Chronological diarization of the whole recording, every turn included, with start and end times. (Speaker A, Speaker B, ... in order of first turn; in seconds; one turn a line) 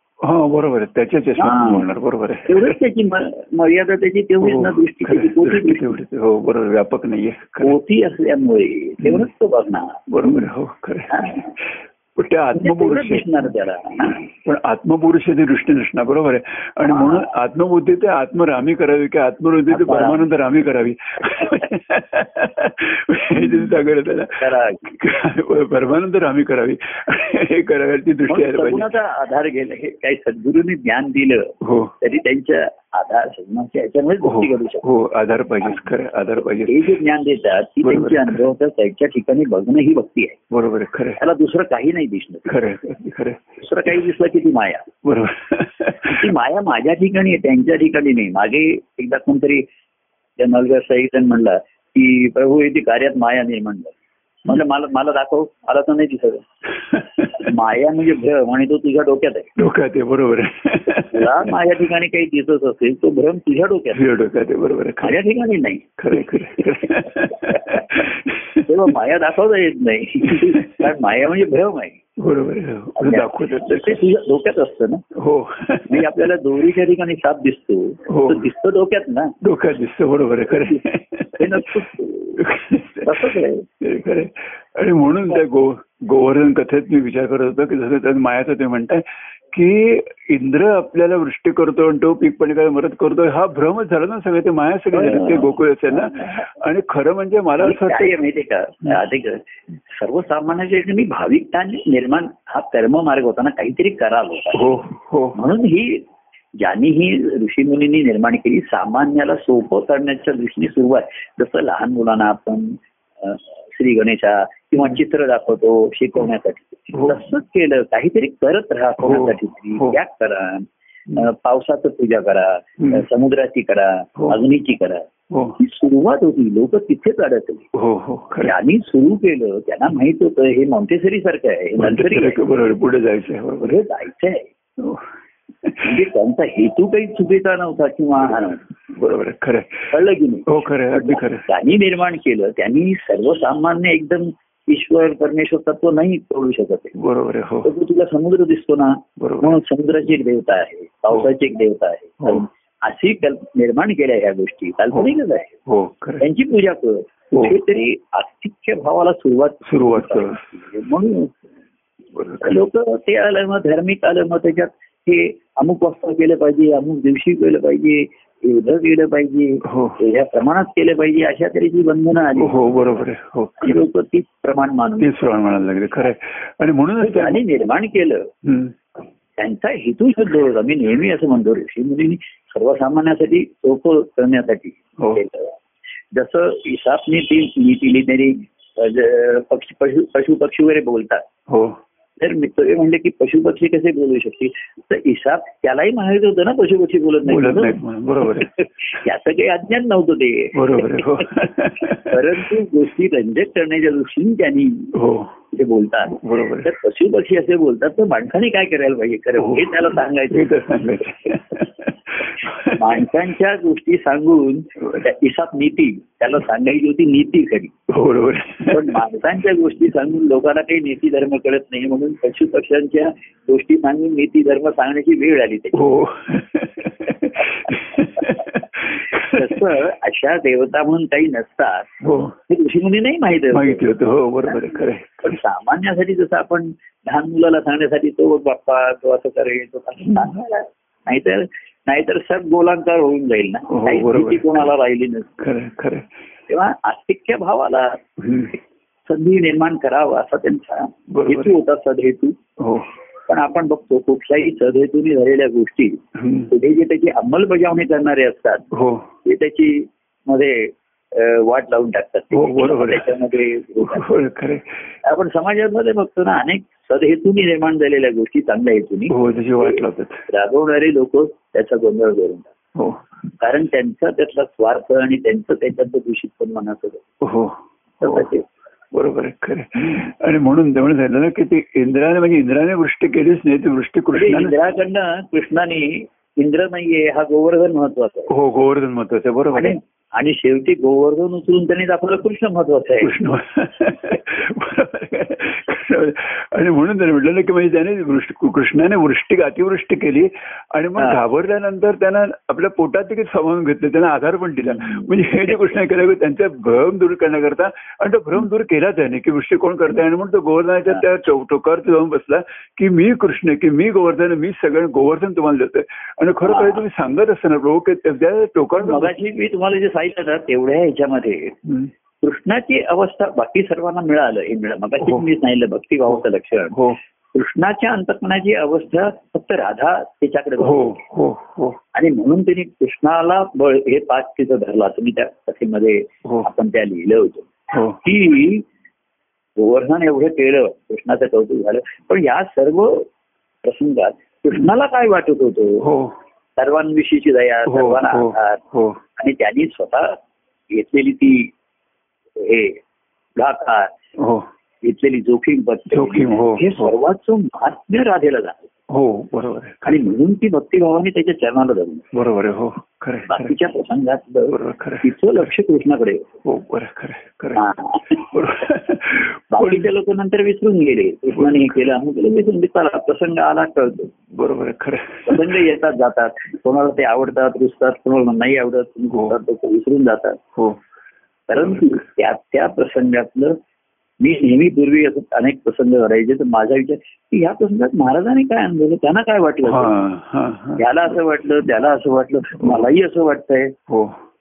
Speaker A: 0.2-2.8
Speaker B: 1.4-1.9
Speaker B: 2.5-6.0
Speaker A: 4.4-7.8
Speaker B: 7.6-10.1
Speaker A: 10.1-13.3
Speaker B: 11.1-11.5
Speaker B: 12.5-14.3
Speaker A: 14.4-28.9
Speaker B: 16.8-17.3
Speaker B: 19.7-20.2
Speaker B: 24.4-25.0
Speaker B: 28.3-34.9
Speaker A: 31.6-31.9
Speaker A: 34.2-36.9
Speaker B: 36.7-40.4
Speaker A: 37.8-38.4
Speaker A: 40.5-41.2
Speaker B: 41.2-42.6
Speaker A: 42.5-44.0
Speaker B: 43.6-44.9
Speaker A: 45.0-46.3
Speaker B: 46.0-49.7
Speaker B: 50.4-56.5
Speaker B: 57.3-59.5
Speaker A: 59.6-61.6
Speaker B: 61.1-64.0
Speaker A: 63.9-65.2
Speaker B: 65.0-66.0
Speaker A: 66.0-68.7
Speaker B: 66.8-68.0
Speaker B: 68.6-72.0
Speaker A: 70.3-70.8
Speaker A: 72.2-74.0
Speaker B: 73.0-75.0
Speaker A: 75.2-76.1
Speaker B: 75.9-79.3
Speaker A: 78.1-78.5
Speaker A: 79.4-81.8
Speaker B: 80.5-80.8
Speaker B: 81.4-82.4
Speaker A: 82.4-98.2
Speaker B: 83.0-83.7
Speaker B: 94.9-96.4
Speaker B: 97.6-104.8
Speaker A: 104.5-105.4
Speaker B: 105.3-106.1
Speaker B: 106.6-127.7
Speaker A: 119.0-120.0
Speaker A: 125.3-125.6
Speaker A: 127.7-128.5
Speaker B: 128.4-132.4
Speaker A: 131.8-133.8
Speaker B: 133.6-134.5
Speaker A: 134.8-135.0
Speaker A: 135.6-135.9
Speaker B: 135.8-138.6
Speaker A: 138.9-139.9
Speaker B: 139.9-147.0
Speaker A: 140.5-141.4
Speaker A: 147.0-147.7
Speaker B: 147.6-155.6
Speaker A: 149.2-149.6
Speaker A: 155.7-156.2
Speaker B: 156.2-161.4
Speaker A: 159.7-160.4
Speaker A: 162.2-162.6
Speaker B: 162.4-172.8
Speaker A: 169.7-170.0
Speaker A: 172.4-173.8
Speaker B: 173.6-175.2
Speaker A: 175.0-177.4
Speaker B: 177.0-178.3
Speaker A: 178.4-178.7
Speaker B: 179.4-185.6
Speaker B: 186.1-191.3
Speaker A: 191.5-191.8
Speaker B: 192.2-204.9
Speaker A: 197.3-198.5
Speaker A: 200.5-202.4
Speaker A: 204.9-205.3
Speaker B: 205.5-210.6
Speaker A: 206.1-206.7
Speaker A: 209.4-213.0
Speaker B: 212.6-217.7
Speaker A: 217.9-219.0
Speaker B: 218.7-226.0
Speaker A: 225.7-229.6
Speaker B: 227.4-228.4
Speaker B: 229.1-231.9
Speaker A: 232.0-232.3
Speaker B: 232.5-233.9
Speaker A: 233.5-235.4
Speaker B: 234.5-245.3
Speaker A: 243.7-244.7
Speaker A: 245.4-246.1
Speaker B: 246.5-248.0
Speaker A: 248.2-248.5
Speaker B: 248.5-252.4
Speaker A: 251.1-251.6
Speaker A: 252.6-252.9
Speaker B: 253.3-258.7
Speaker A: 256.2-256.5
Speaker A: 258.7-259.1
Speaker B: 259.2-264.1
Speaker A: 262.3-264.7
Speaker B: 265.0-272.5
Speaker A: 269.1-270.2
Speaker B: 273.4-277.0
Speaker A: 277.2-278.3
Speaker B: 278.0-278.5
Speaker A: 278.9-284.5
Speaker B: 284.1-288.3
Speaker A: 288.3-289.8
Speaker B: 289.5-293.1
Speaker A: 293.0-319.1
Speaker B: 304.8-305.1
Speaker B: 316.4-316.8
Speaker B: 318.8-321.6
Speaker A: 321.7-321.9
Speaker B: 322.2-331.0
Speaker A: 326.7-327.0
Speaker A: 330.6-331.8
Speaker B: 331.9-338.7
Speaker A: 337.7-338.0
Speaker B: 339.6-343.1
Speaker B: 343.6-345.9
Speaker A: 345.8-346.1
Speaker B: 346.6-348.6
Speaker A: 347.7-349.0
Speaker B: 349.2-350.2
Speaker B: 350.7-351.5
Speaker B: 352.4-352.8
Speaker B: 353.4-353.9
Speaker A: 354.2-354.5
Speaker B: 354.8-358.6
Speaker A: 355.9-356.9
Speaker A: 358.9-360.1
Speaker B: 359.8-362.1
Speaker A: 362.1-363.5
Speaker B: 363.3-366.3
Speaker A: 364.5-365.1
Speaker A: 366.4-367.6
Speaker B: 367.6-368.3
Speaker A: 368.1-369.9
Speaker B: 369.5-374.1
Speaker A: 371.3-371.8
Speaker A: 374.3-375.7
Speaker B: 375.3-380.4
Speaker B: 381.5-383.6
Speaker A: 381.6-382.0
Speaker B: 384.2-389.9
Speaker A: 389.7-390.8
Speaker B: 390.8-393.8
Speaker A: 393.9-394.2